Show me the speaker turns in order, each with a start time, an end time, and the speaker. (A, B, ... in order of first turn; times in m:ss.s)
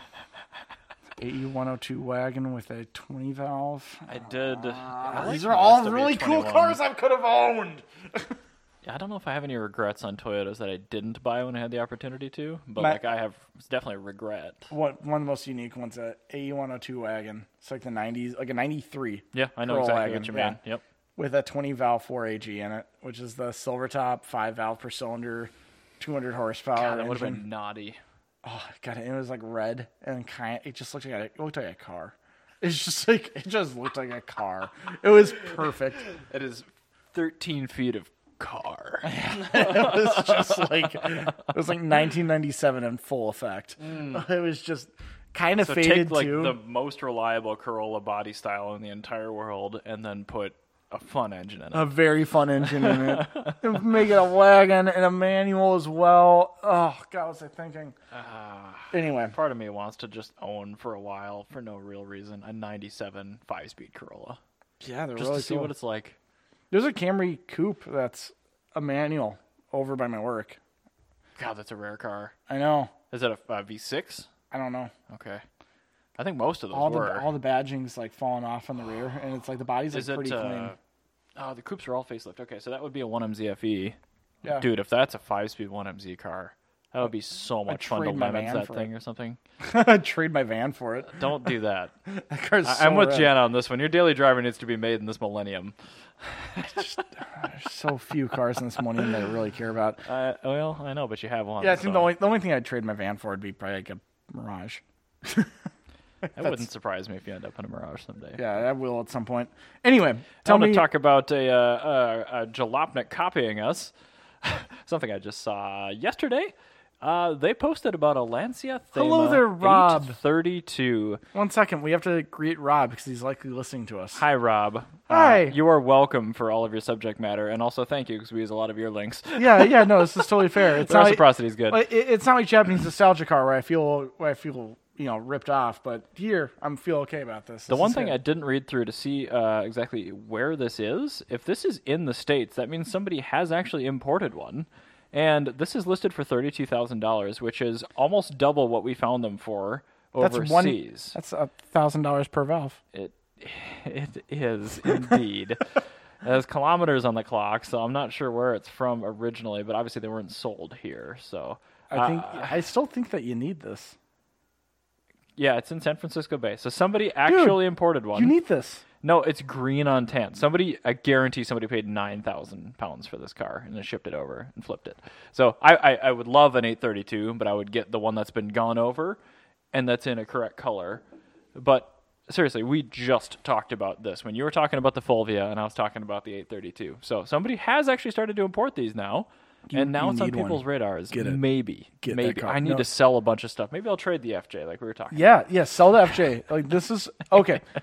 0:01.2-0:08.4 A
0:04.1-0:06.8 B
0:08.8-0:14.7 B
0:14.7-0:20.6 A
0:19.3-0:20.8 B
0:21.2-0:27.4 A
0:26.8-0:28.0 B
0:28.4-0:36.0 A
0:36.2-0:41.4 B
0:39.0-0:46.6 A
0:43.8-0:44.2 B
0:45.6-0:51.9 B
0:51.7-0:58.0 A
0:52.6-0:53.8 B
0:58.1-1:04.4 B
0:58.9-0:59.4 A
1:04.8-1:05.7 A
1:05.2-1:06.2 B
1:06.7-1:10.6 A
1:11.4-1:12.4 B
1:12.5-1:12.9 A
1:13.1-1:14.3 B
1:14.5-1:14.9 A
1:15.1-1:15.4 B
1:16.2-1:17.3 B
1:16.7-1:20.7 A
1:19.9-1:20.8 B
1:21.4-1:29.4 B
1:27.7-1:28.9 A
1:29.6-1:31.5 A
1:31.1-1:31.9 B
1:32.1-1:33.3 A
1:32.6-1:37.0 B
1:36.6-1:40.0 A
1:40.0-1:42.1 B
1:41.6-1:45.5 A
1:46.3-1:48.6 B
1:46.4-1:46.6 A
1:48.4-1:50.9 A
1:50.4-2:01.2 B
1:58.9-2:00.2 A
2:01.3-2:04.2 A
2:04.2-2:11.9 B
2:05.1-2:05.6 A
2:09.4-2:18.2 A
2:17.7-2:31.2 B
2:30.2-2:32.8 A
2:32.9-2:42.6 B
2:41.9-2:44.0 A
2:45.4-2:48.4 B
2:47.3-2:48.8 A
2:49.0-2:59.2 B
2:59.7-3:01.0 B
3:01.6-3:15.4 B
3:09.7-3:11.4 A
3:12.0-3:12.8 A
3:15.1-3:17.6 A